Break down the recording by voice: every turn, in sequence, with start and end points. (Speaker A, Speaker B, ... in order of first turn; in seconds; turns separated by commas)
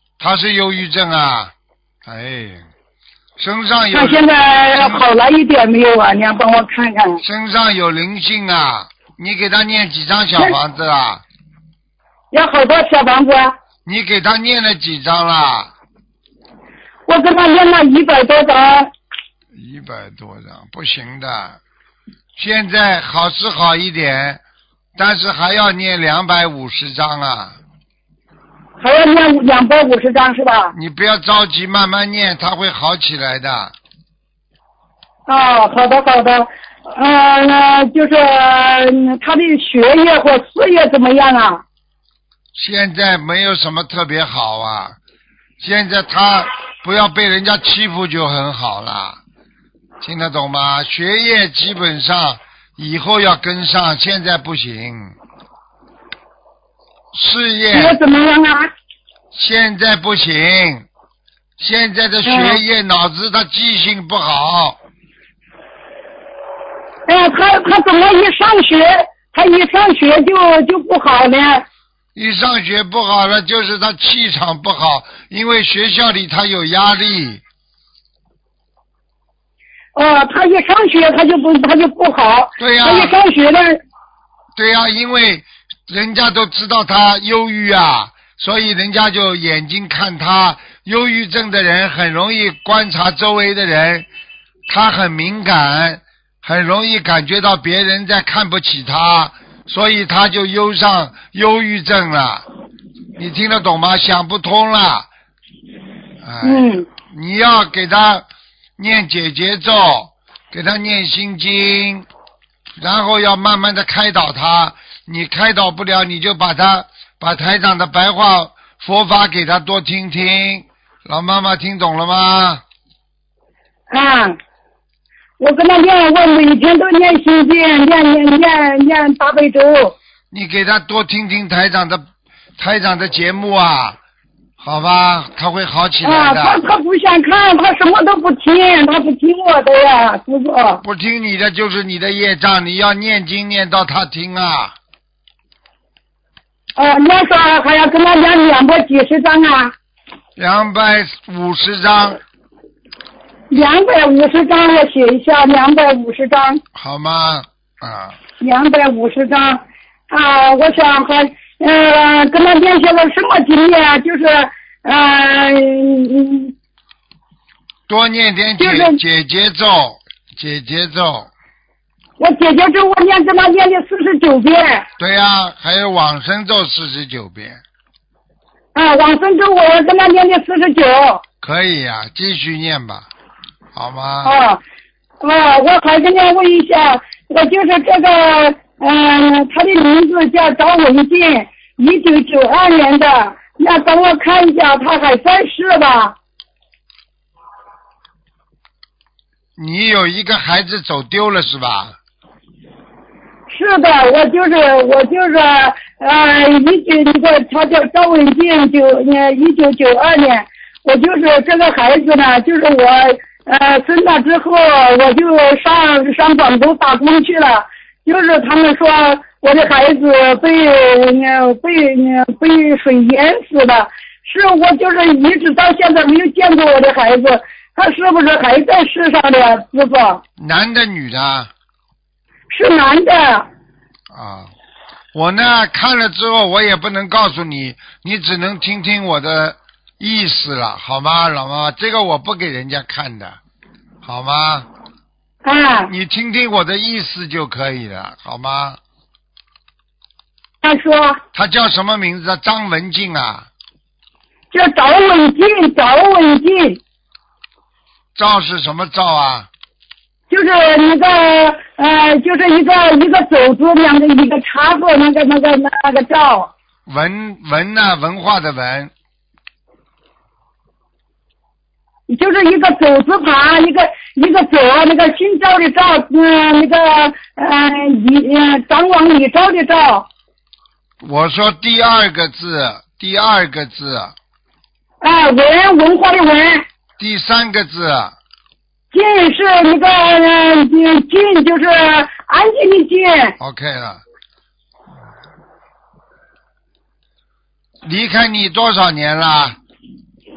Speaker A: 0.2-1.5, Speaker A: 2.0-2.7, Speaker A: 3.4-5.0, Speaker B: 3.9-7.2, Speaker A: 7.2-11.2, Speaker B: 12.3-13.6, Speaker A: 13.9-15.7, Speaker B: 17.1-18.9, Speaker A: 19.5-21.6, Speaker A: 22.4-24.4, Speaker A: 25.0-27.6, Speaker B: 28.8-30.7, Speaker A: 30.7-33.7, Speaker B: 35.3-41.6, Speaker A: 42.5-45.0, Speaker A: 45.6-49.2, Speaker A: 50.0-55.2, Speaker A: 57.1-58.0, Speaker B: 57.7-58.7, Speaker A: 59.3-60.9, Speaker A: 61.6-64.8, Speaker B: 62.2-62.6, Speaker B: 67.1-71.7, Speaker A: 72.2-77.4, Speaker B: 80.0-83.8, Speaker A: 82.6-83.2, Speaker A: 84.6-94.1, Speaker A: 94.7-102.5, Speaker A: 103.2-105.1, Speaker A: 106.2-108.3, Speaker B: 106.4-106.9, Speaker A: 108.8-112.1, Speaker A: 112.8-122.6, Speaker B: 123.9-124.4, Speaker B: 125.4-129.9, Speaker A: 130.3-132.1, Speaker A: 132.6-134.0, Speaker A: 134.6-136.6, Speaker B: 136.0-140.8, Speaker A: 140.8-144.8, Speaker B: 146.8-149.8, Speaker A: 150.4-152.2, Speaker B: 153.5-156.6, Speaker A: 156.8-158.2, Speaker B: 158.4-166.5, Speaker A: 167.9-171.3, Speaker B: 168.6-169.0, Speaker B: 172.2-174.9, Speaker A: 175.0-177.6, Speaker B: 178.7-181.2, Speaker A: 181.4-183.1, Speaker A: 183.7-184.4, Speaker B: 184.2-184.6, Speaker B: 185.2-196.2, Speaker A: 199.6-202.0, Speaker B: 203.5-230.2, Speaker A: 230.4-231.5, Speaker B: 232.5-233.5, Speaker A: 234.1-234.5, Speaker A: 235.1-243.4, Speaker A: 244.0-244.7, Speaker B: 245.4-245.9, Speaker A: 245.9-248.8, Speaker B: 250.6-251.2, Speaker A: 251.3-253.5, Speaker B: 254.5-256.8, Speaker A: 258.2-259.5, Speaker B: 260.3-266.5, Speaker A: 266.9-268.9, Speaker B: 272.1-280.1, Speaker A: 281.0-284.1, Speaker B: 285.0-286.7, Speaker A: 287.0-288.1, Speaker B: 288.9-293.4, Speaker A: 293.4-294.0, Speaker A: 297.8-299.6